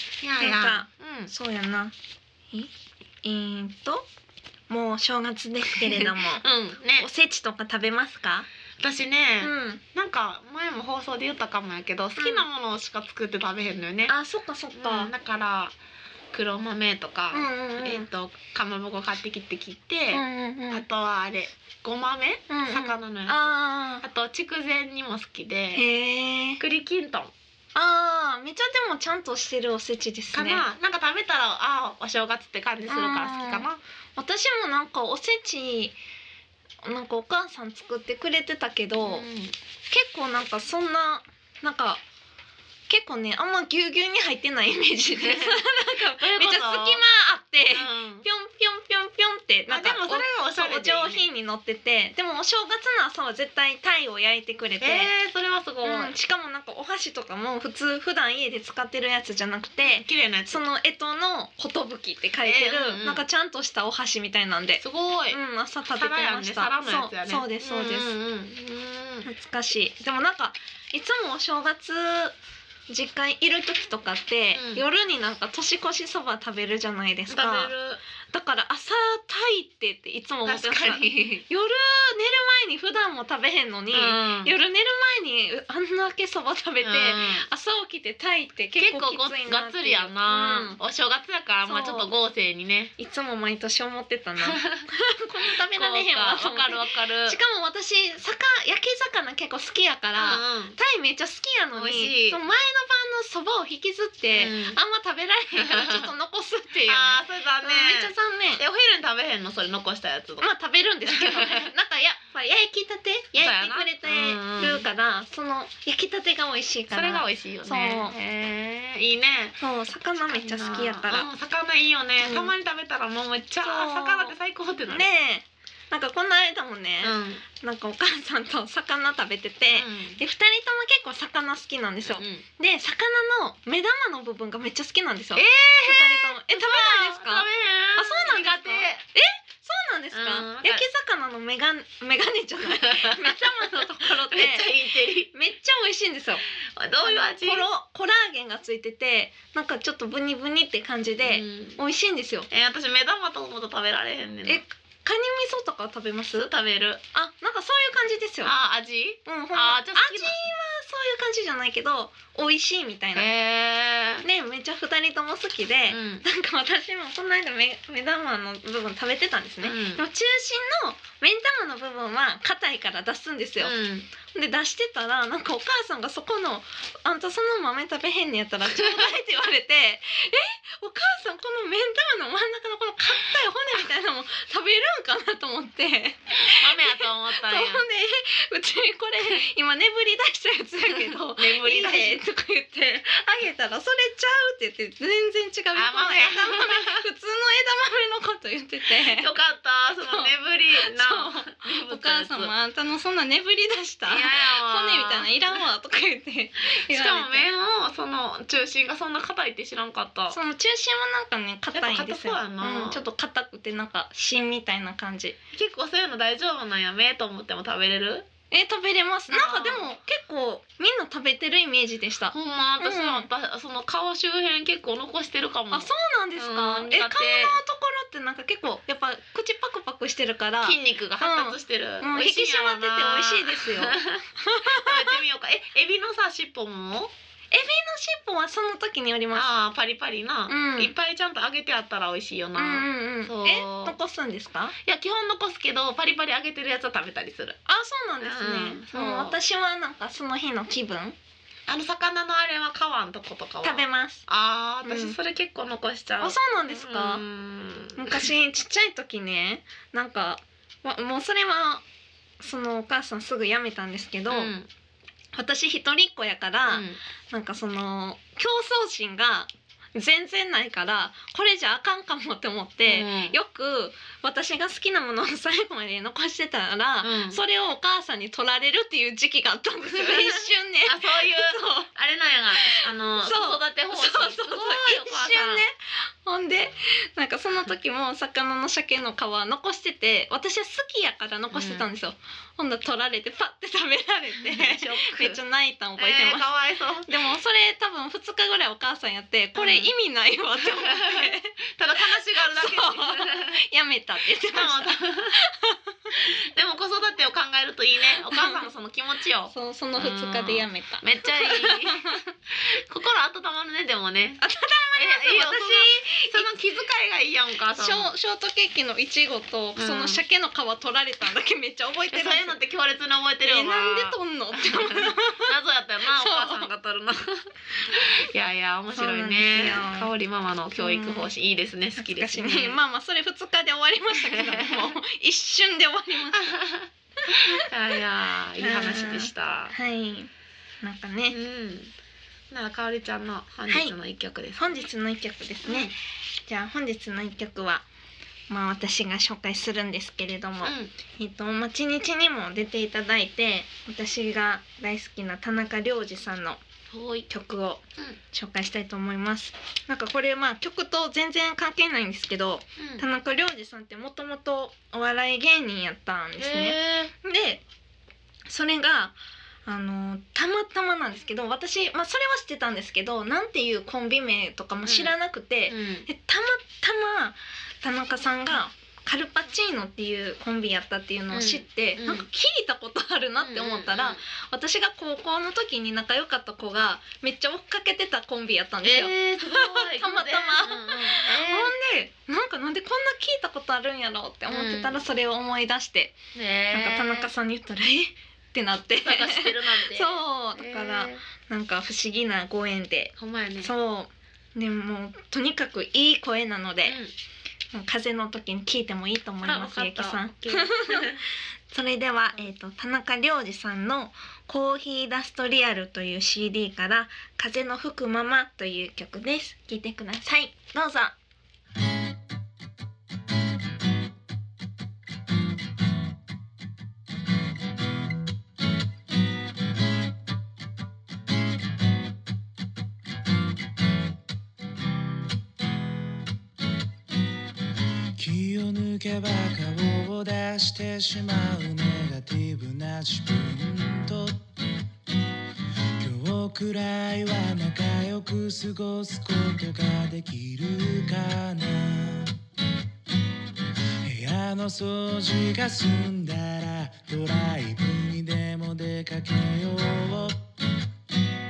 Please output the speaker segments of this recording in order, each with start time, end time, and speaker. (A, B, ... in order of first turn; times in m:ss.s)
0:00.2-0:01.3 A
0:00.4-0:01.9 B
0:03.2-0:04.1 B
0:04.7-0:06.4 B
0:05.8-0:07.1 A
0:07.0-0:08.5 B
0:08.8-0:14.1 A
0:09.4-0:09.8 B
0:12.2-0:12.4 B
0:14.1-0:15.1 B
0:14.7-0:15.8 A
0:16.3-0:25.8 A
0:17.3-0:18.1 B
0:20.1-0:20.8 B
0:22.5-0:24.0 B
0:25.7-0:26.6 B
0:26.6-0:27.3 A
0:27.8-0:30.6 B
0:30.3-0:33.8 A
0:32.9-0:36.0 B
0:36.8-0:39.3 B
0:39.0-0:39.5 A
0:39.9-0:42.0 B
0:42.9-0:55.1 B
0:45.1-0:47.0 A
0:47.7-0:48.2 A
0:49.7-0:51.2 A
0:54.8-0:56.1 A
0:55.8-1:08.1 B
0:59.8-1:00.6 A
1:02.4-1:03.2 A
1:04.8-1:05.4 A
1:05.9-1:09.3 A
1:09.2-1:12.4 B
1:12.9-1:17.7 B
1:14.5-1:14.8 A
1:17.3-1:18.0 A
1:18.3-1:30.8 B
1:20.4-1:21.4 A
1:23.9-1:24.5 A
1:26.8-1:27.4 A
1:28.8-1:32.9 A
1:31.6-1:32.1 B
1:33.0-1:48.6 B
1:34.4-1:34.9 A
1:35.7-1:37.4 A
1:40.1-1:40.8 A
1:41.7-1:42.4 A
1:44.3-1:44.8 A
1:45.5-1:46.1 A
1:46.8-1:50.5 A
1:50.4-1:58.1 B
1:51.1-1:51.7 A
1:53.4-1:54.8 A
1:56.9-1:59.6 A
1:59.6-2:01.3 B
2:00.2-2:05.1 A
2:02.2-2:02.5 B
2:03.6-2:04.3 B
2:04.9-2:24.7 B
2:07.0-2:07.4 A
2:09.7-2:10.2 A
2:12.1-2:12.4 A
2:15.4-2:19.0 A
2:20.1-2:20.8 A
2:22.6-2:25.3 A
2:25.3-2:26.4 B
2:26.8-2:27.7 A
2:27.0-2:32.5 B
2:31.2-2:31.8 A
2:32.5-2:34.6 A
2:34.5-2:36.5 B
2:36.3-2:37.0 A
2:37.1-2:38.5 B
2:38.4-2:40.4 A
2:39.2-2:43.3 B
2:43.1-2:44.2 A
2:44.2-3:19.3 B
2:45.9-2:46.2 A
2:49.6-2:50.0 A
2:53.6-2:54.1 A
2:58.7-2:59.1 A
3:06.4-3:07.8 A
3:10.9-3:12.2 A
3:15.7-3:17.0 A
3:18.9-3:22.5 A
3:20.0-3:27.5 B
3:24.1-3:25.6 A
3:26.7-3:30.4 A
3:30.3-3:35.4 B
3:31.7-3:33.0 A
3:35.5-3:38.3 A
3:38.5-3:43.3 B
3:39.3-3:39.9 A
3:42.3-3:47.6 A
3:45.7-3:55.2 B
3:50.6-3:57.1 A
3:57.5-3:59.5 B
3:59.3-4:04.0 A
4:00.5-4:00.9 B
4:02.6-4:04.8 B
4:04.8-4:07.6 A
4:07.6-4:11.2 B
4:08.2-4:09.4 A
4:11.7-4:18.3 A
4:13.6-4:14.2 B
4:14.8-4:15.2 B
4:16.2-4:17.2 B
4:18.0-4:21.8 B
4:22.4-4:24.5 B
4:24.3-4:24.7 A
4:25.3-4:41.9 B
4:26.7-4:27.0 A
4:32.8-4:33.4 A
4:37.0-4:37.4 A
4:39.8-4:45.6 A
4:42.6-4:56.5 B
4:51.5-4:51.9 A
4:54.3-4:55.4 A
4:56.0-4:57.1 A
4:57.0-5:01.5 B
4:59.6-4:59.9 A
5:00.6-5:03.6 A
5:02.0-5:05.9 B
5:04.5-5:05.4 A
5:06.1-5:14.4 A
5:08.3-5:08.7 B
5:09.5-5:12.3 B
5:14.4-5:16.5 B
5:15.0-5:18.1 A
5:17.7-5:22.6 B
5:19.8-5:20.2 A
5:22.1-5:32.8 A
5:23.4-5:25.5 B
5:26.1-5:26.7 B
5:29.0-5:30.1 B
5:30.8-5:31.3 B
5:32.0-5:36.5 B
5:34.1-5:35.0 A
5:36.3-5:39.8 A
5:37.3-5:38.0 B
5:38.6-5:40.3 B
5:40.8-5:41.4 B
5:41.3-5:41.9 A
5:42.5-5:44.9 A
5:43.7-5:44.0 B
5:44.6-5:45.9 B
5:45.6-5:45.9 A
5:46.5-5:47.8 B
5:48.5-5:56.6 B
5:50.6-5:50.9 A
5:56.9-5:57.3 A
5:57.3-6:07.6 B
6:02.8-6:03.0 A
6:06.4-6:07.1 A
6:08.5-6:09.1 B
6:09.6-6:36.2 B
6:14.8-6:15.1 A
6:15.7-6:16.1 A
6:21.3-6:22.2 A
6:23.4-6:24.2 A
6:28.8-6:31.7 A
6:34.5-6:35.0 A
6:36.3-6:37.3 A
6:36.7-6:47.0 B
6:39.0-6:41.2 A
6:43.2-6:43.7 A
6:46.8-6:47.1 A
6:47.7-7:01.1 B
6:49.4-6:51.2 A
7:18.2-7:24.4 C
7:26.0-7:32.4 C
7:34.0-7:40.5 C